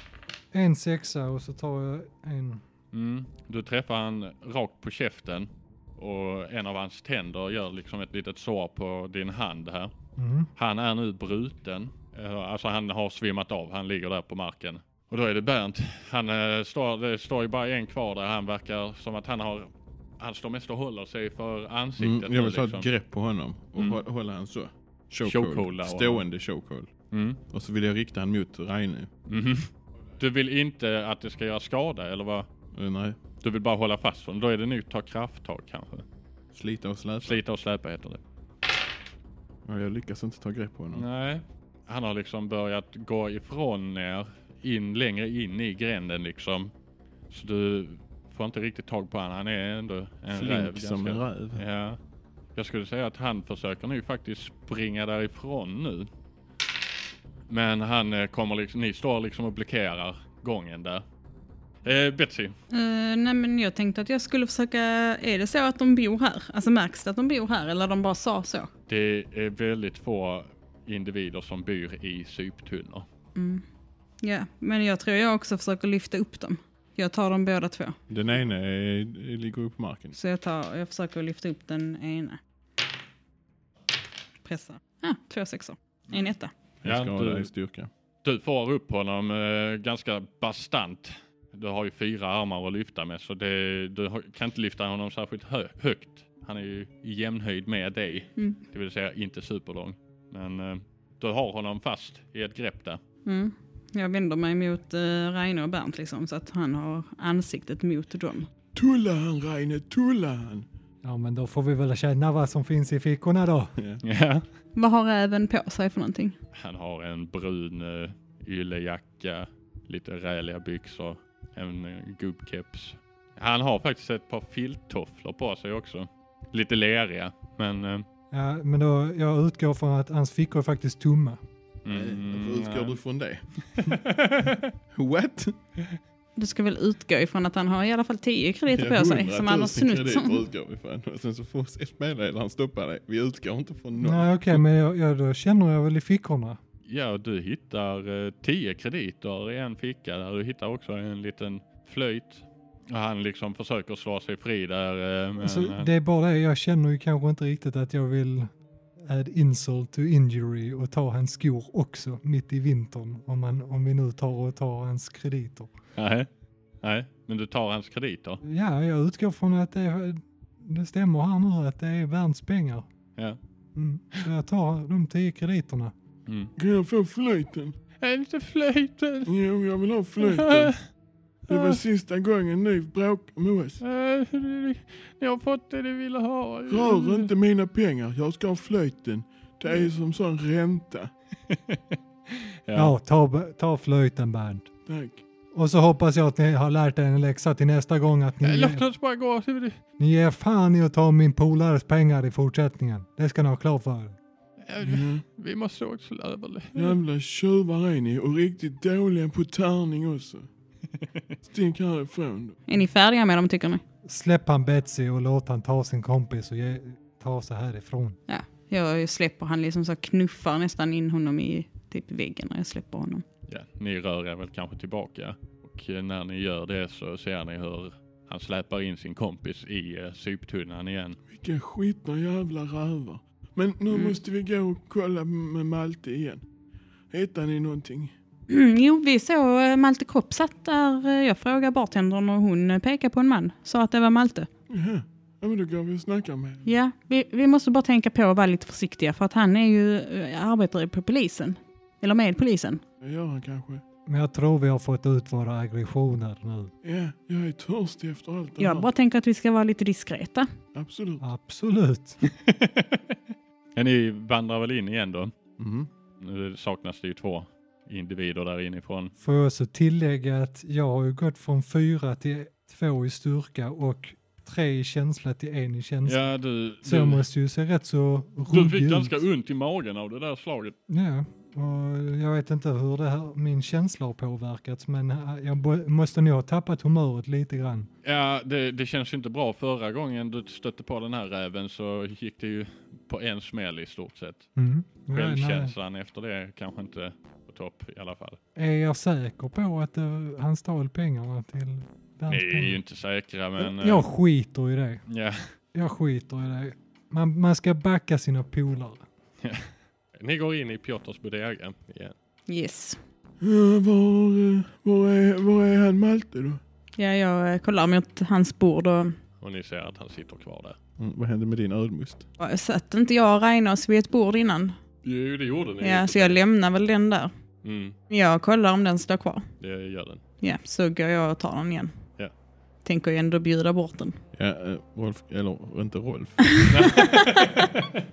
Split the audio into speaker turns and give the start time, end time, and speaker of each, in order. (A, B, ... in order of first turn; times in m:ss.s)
0:00.5-0:02.6 A
0:02.9-0:09.9 B
0:10.2-0:10.5 A
0:10.6-0:22.9 B
0:22.0-0:26.9 C
0:23.8-0:24.0 B
0:25.2-0:26.2 B
0:27.1-0:27.4 B
0:27.5-0:29.1 C
0:29.3-0:32.5 B
0:32.7-0:33.2 C
0:33.4-0:36.0 B
0:36.5-0:37.4 C
0:37.2-0:38.2 B
0:39.6-0:41.0 C
0:40.9-0:46.7 B
0:47.3-0:52.0 B
0:50.3-0:51.6 C
0:52.6-0:56.1 B
0:57.5-1:01.0 B
1:01.8-1:02.5 B
1:02.7-1:08.7 D
1:08.9-1:13.0 B
1:13.3-1:13.6 D
1:14.2-1:18.0 D
1:18.1-1:20.1 C
1:20.1-1:22.4 D
1:24.4-1:26.5 D
1:26.8-1:27.9 C
1:26.8-1:27.5 B
1:28.2-1:43.0 B
1:43.2-1:48.5 D
1:48.7-1:50.7 E
1:51.0-1:53.7 A
1:53.8-1:54.0 C
1:54.0-1:54.4 B
1:54.8-1:56.4 D
1:56.5-2:08.0 B
2:08.3-2:11.4 A
2:11.8-2:13.0 B
2:11.9-2:14.0 C
2:13.7-2:14.7 B
2:14.9-2:15.6 C
2:16.4-2:20.4 D
2:18.7-2:24.4 C
2:24.0-2:26.6 A
2:26.9-2:35.9 B
2:35.4-2:45.7 A
2:46.0-2:46.3 B
2:46.8-2:48.4 B
2:48.4-2:52.9 A
2:53.7-2:55.9 A
2:56.3-2:56.5 B
2:56.6-2:57.7 E
2:58.0-2:59.3 B
2:59.2-3:00.9 E
3:00.2-3:00.8 B
3:01.5-3:03.8 E
3:01.5-3:01.8 B
3:03.8-3:07.3 B
3:06.7-3:11.1 E
3:11.5-3:12.9 B
3:12.7-3:14.7 A
3:14.8-3:15.2 E
3:15.5-3:18.8 A
3:18.4-3:19.8 B
3:20.0-3:24.2 A
3:24.6-3:27.0 B
3:24.8-3:25.2 E
3:26.7-3:30.5 E
3:31.4-3:32.6 E
3:32.7-3:33.8 D
3:34.0-3:38.2 A
3:38.3-3:43.2 D
3:43.5-3:51.2 B
3:51.3-3:56.4 E
3:53.9-3:54.2 D
3:57.1-3:58.1 E
3:58.5-4:04.5 D
4:04.7-4:06.6 E
4:06.6-4:12.8 D
4:13.0-4:13.8 E
4:14.0-4:16.7 A
4:16.8-4:18.9 E
4:18.6-4:20.5 D
4:20.7-4:21.2 E
4:21.2-4:22.2 A
4:22.2-4:23.2 B
4:23.8-4:25.3 B
4:25.6-4:25.9 C
4:26.2-4:29.1 B
4:29.2-4:39.1 A
4:36.0-4:37.2 B
4:38.5-4:40.8 B
4:40.9-4:47.9 A
4:48.0-4:54.5 B
4:54.6-4:55.7 A
4:55.1-4:58.4 B
4:58.5-5:02.8 A
5:02.3-5:04.0 B
5:03.6-5:05.0 A
5:05.1-5:05.5 B
5:05.7-5:09.0 A
5:09.4-5:12.1 B
5:12.5-5:13.0 D
5:13.4-5:16.6 E
5:17.0-5:19.2 D
5:19.4-5:20.8 B
5:21.0-5:22.2 C
5:22.4-5:24.8 D
5:25.0-5:26.4 B
5:25.8-5:27.3 D
5:27.6-5:28.0 B
5:28.1-5:29.5 D
5:29.6-5:30.2 B
5:30.4-5:31.9 D
5:32.8-5:34.2 D
5:34.3-5:37.0 C
5:36.7-5:38.0 B